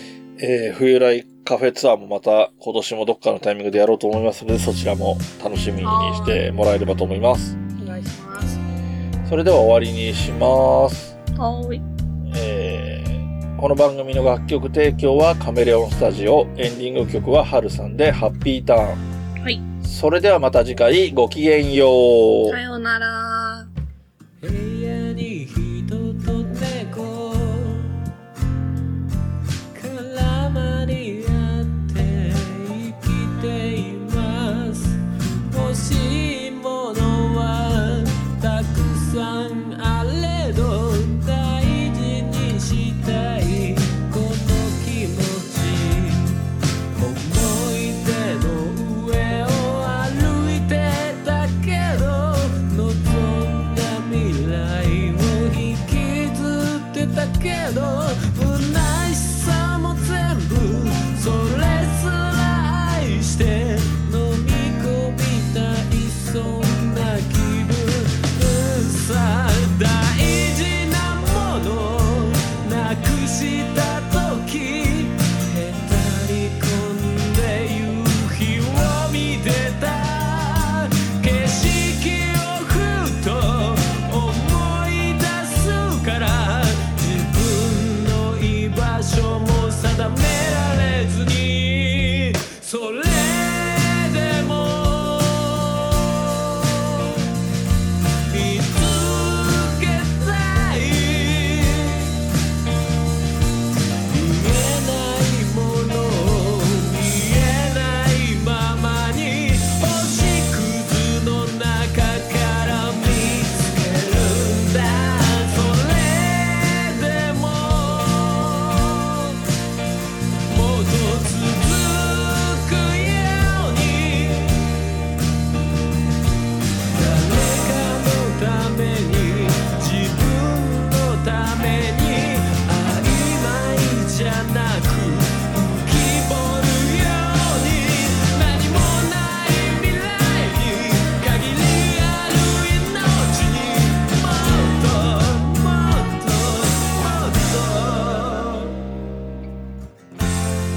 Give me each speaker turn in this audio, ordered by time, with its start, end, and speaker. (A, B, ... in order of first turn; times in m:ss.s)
0:00.4-0:07.6 A
0:05.8-0:06.4 B
0:07.8-0:08.6 B
0:09.2-0:11.2 A
0:11.4-0:11.8 B
0:12.3-0:19.0 A
0:19.8-0:22.6 A
0:22.5-0:23.7 B
0:24.4-0:27.9 C
0:29.7-0:35.0 C
0:35.5-0:46.4 C
0:46.9-1:37.3 C
1:38.3-1:42.1 C
1:44.0-1:59.4 C
2:00.5-2:04.7 C
2:06.9-2:28.8 C